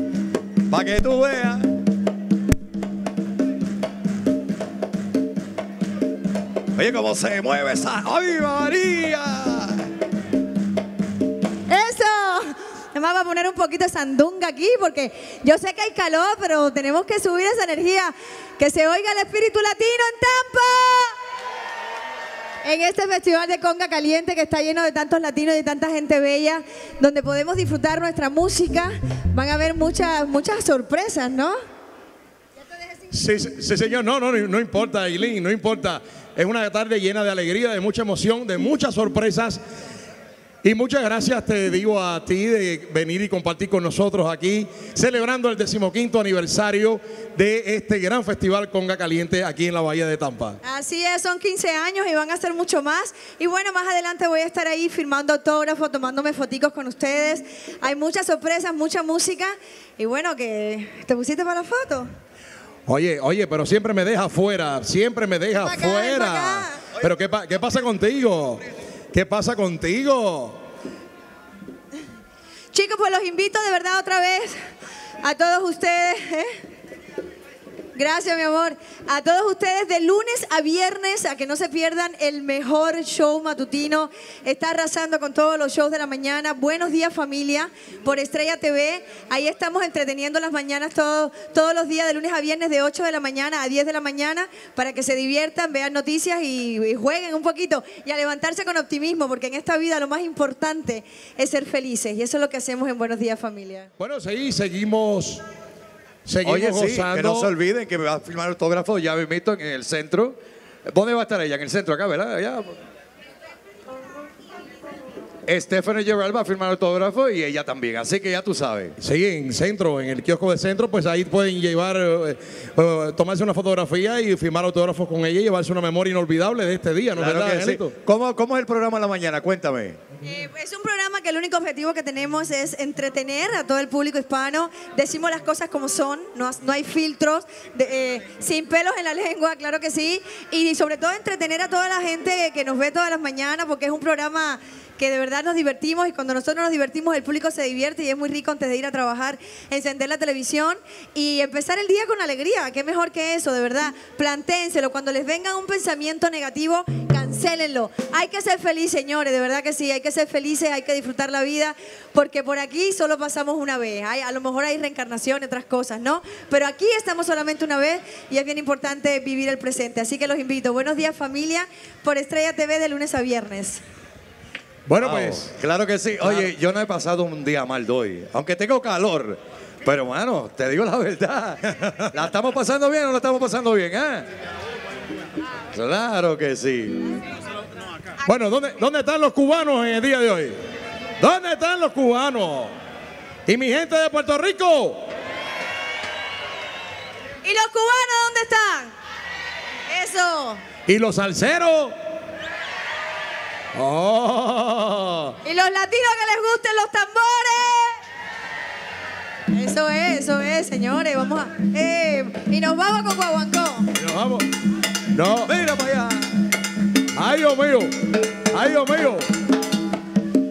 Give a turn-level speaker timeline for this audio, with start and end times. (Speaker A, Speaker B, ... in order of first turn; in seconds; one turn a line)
Speaker A: 0.7-1.7
Speaker A: 6.7-9.9
Speaker B: 11.7-21.1
Speaker B: 22.6-31.6
Speaker C: 33.1-39.6
Speaker C: 40.6-50.6
Speaker B: 50.6-62.1
Speaker C: 62.9-68.6
Speaker B: 65.6-66.8
Speaker C: 69.1-70.6
Speaker B: 72.7-74.5
Speaker B: 75.2-76.5
Speaker B: 77.9-103.9
Speaker C: 104.0-105.4
Speaker C: 106.2-107.5
Speaker A: 106.4-112.8
Speaker A: 115.5-119.0
Speaker C: 119.0-127.9
Speaker A: 127.1-130.0
Speaker B: 130.2-173.8
Speaker C: 174.9-175.5
Speaker A: 175.0-184.2
Speaker C: 176.2-176.5
Speaker A: 185.7-187.1
Speaker C: 188.2-190.5
Speaker C: 191.2-192.7
Speaker C: 193.5-195.0
Speaker B: 197.4-198.9
Speaker B: 199.9-200.6
Speaker C: 200.9-201.9
Speaker C: 203.7-205.3
Speaker B: 205.4-208.0
Speaker B: 209.5-213.9
Speaker C: 214.0-214.5
Speaker C: 215.1-215.5
Speaker A: 215.4-216.3
Speaker C: 217.1-217.9
Speaker C: 218.5-219.2